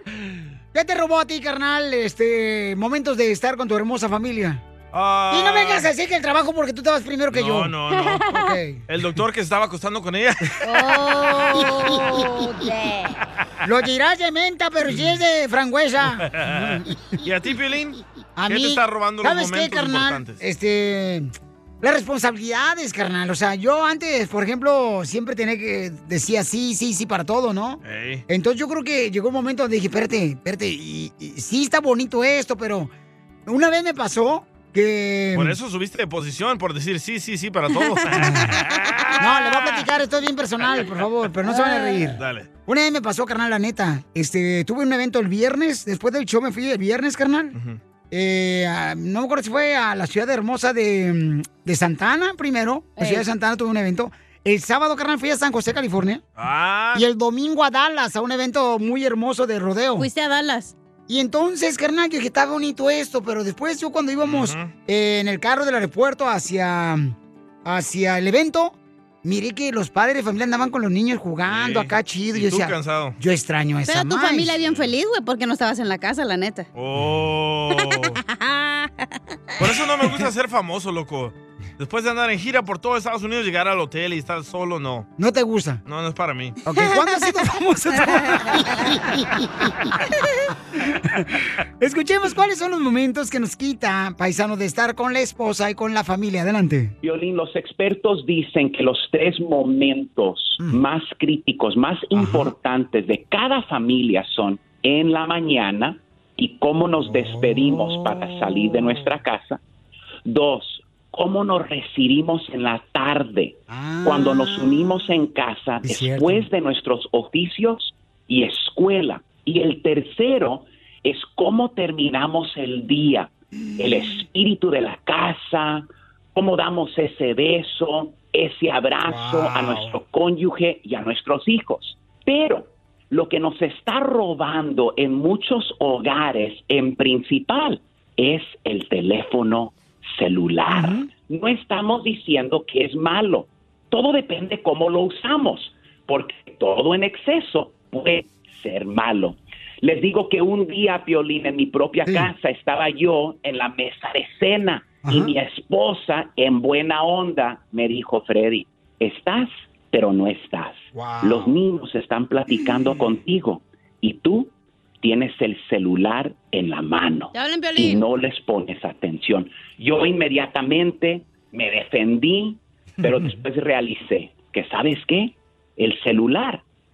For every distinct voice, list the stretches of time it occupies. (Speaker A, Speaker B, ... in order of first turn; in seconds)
Speaker A: 0.7-4.6, 5.3-7.7, 8.3-8.8, 13.6-16.9, 18.4-32.9, 33.5-35.6, 38.2-38.6, 39.2-47.6, 48.1-56.2, 56.9-60.1, 61.1-74.5, 85.2-85.8, 86.7-89.7, 90.8-96.9, 102.2-102.5, 107.1-109.0, 113.7-114.8, 115.8-116.5, 129.0-130.0, 140.7-141.1, 152.1-152.3, 155.1-155.3, 160.9-161.6
Speaker B: 4.9-5.9, 7.3-8.2, 8.9-10.6, 16.3-20.4, 27.8-28.2, 35.4-39.2, 42.2-42.5, 47.5-47.8, 56.4-57.0, 64.2-64.7, 71.5-73.2, 76.8-78.2, 79.6-85.1, 85.9-86.6
Speaker C: 7.9-8.6, 10.6-13.2, 41.5-42.0, 53.0-53.3, 60.0-60.8, 73.9-76.7, 78.0-79.2, 86.8-87.2, 88.4-88.9, 167.3-168.0
Speaker D: 97.0-109.6, 110.3-176.6